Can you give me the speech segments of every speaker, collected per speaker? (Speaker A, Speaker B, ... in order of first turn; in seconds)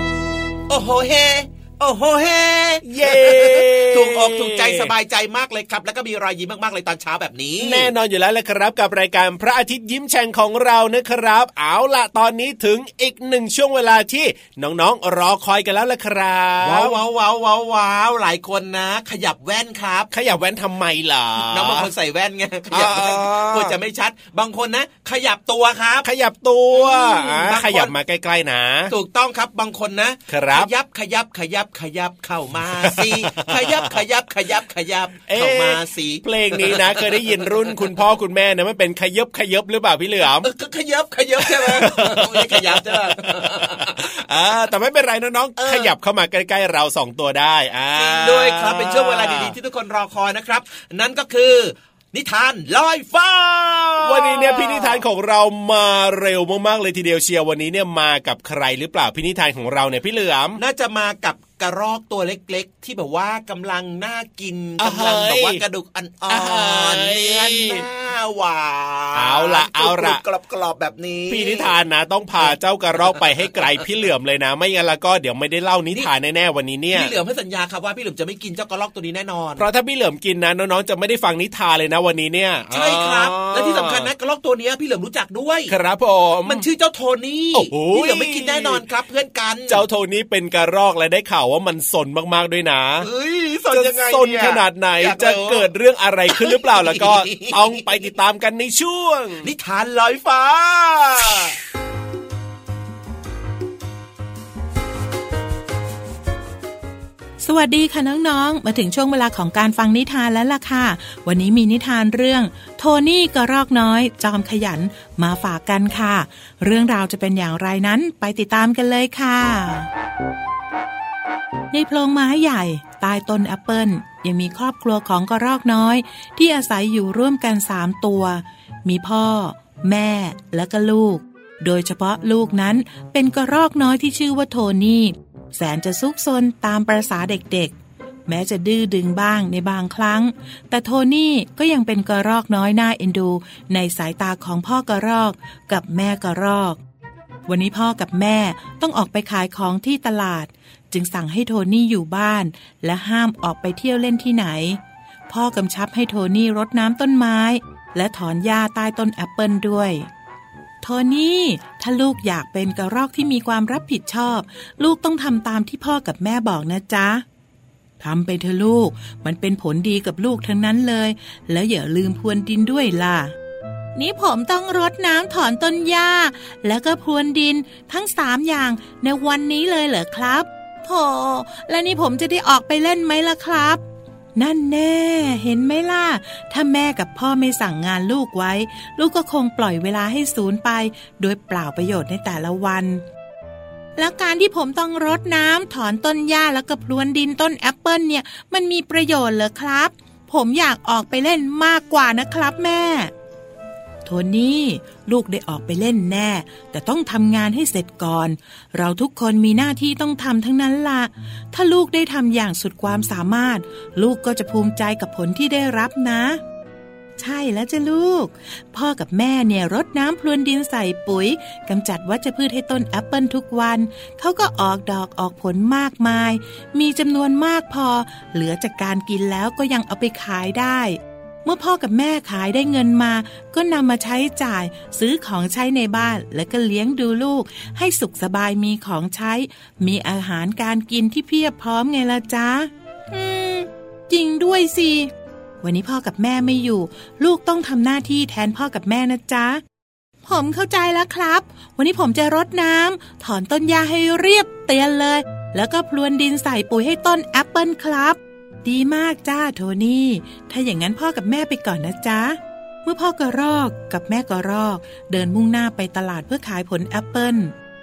Speaker A: 0.7-7.9, 16.6-20.1, 21.5-26.1, 26.7-27.9, 28.9-37.8, 40.4-44.0, 45.6-45.9, 48.0-55.0, 60.6-71.7, 76.9-79.7, 82.7-85.8, 86.5-89.8, 93.0-95.7, 96.3-97.8, 99.4-101.6
Speaker B: 2.9-4.9, 7.6-17.0, 20.1-21.9, 22.7-23.8, 26.0-28.9, 30.3-30.7, 32.8-34.0, 35.3-40.5, 41.4-49.5, 54.0-60.6, 64.8-65.6, 66.3-67.9, 69.1-70.2, 71.3-77.1, 79.6-84.1, 85.7-86.7, 87.5-88.8, 89.7-93.1, 93.7-99.5
Speaker C: 107.4-119.9, 121.7-137.7, 138.3-146.8, 147.5-160.1, 160.8-167.2, 168.0-173.3, 174.0-183.8, 184.4-193.0, 194.0-203.1, 204.1-216.4, 217.2-245.1, 245.6-249.6, 250.3-267.5